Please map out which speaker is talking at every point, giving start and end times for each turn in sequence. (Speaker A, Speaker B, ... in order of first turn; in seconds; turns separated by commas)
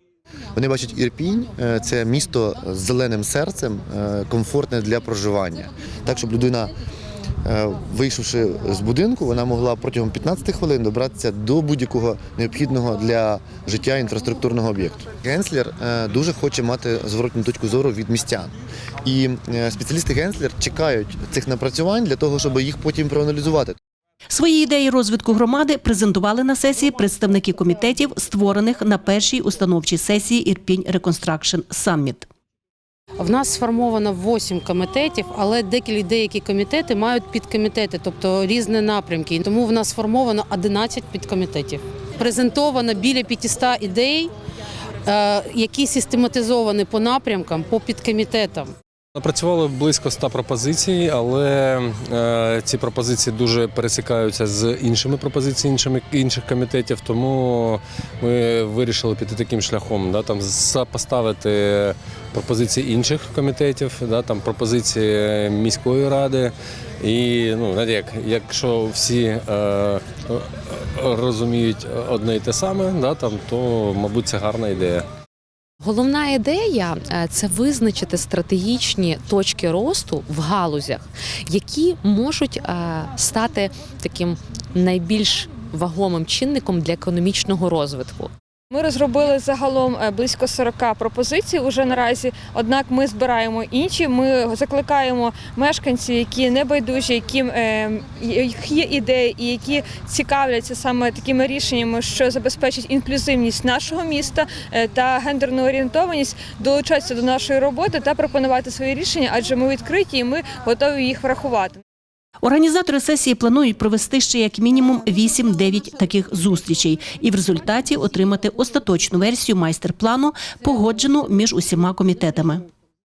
Speaker A: 0.5-6.7, Speaker A: 7.4-23.8, Speaker B: 24.3-32.3, Speaker C: 33.2-44.3, Speaker C: 45.0-48.7, Speaker D: 49.1-75.1, Speaker E: 75.8-88.3, Speaker F: 88.7-111.8, Speaker B: 112.4-122.6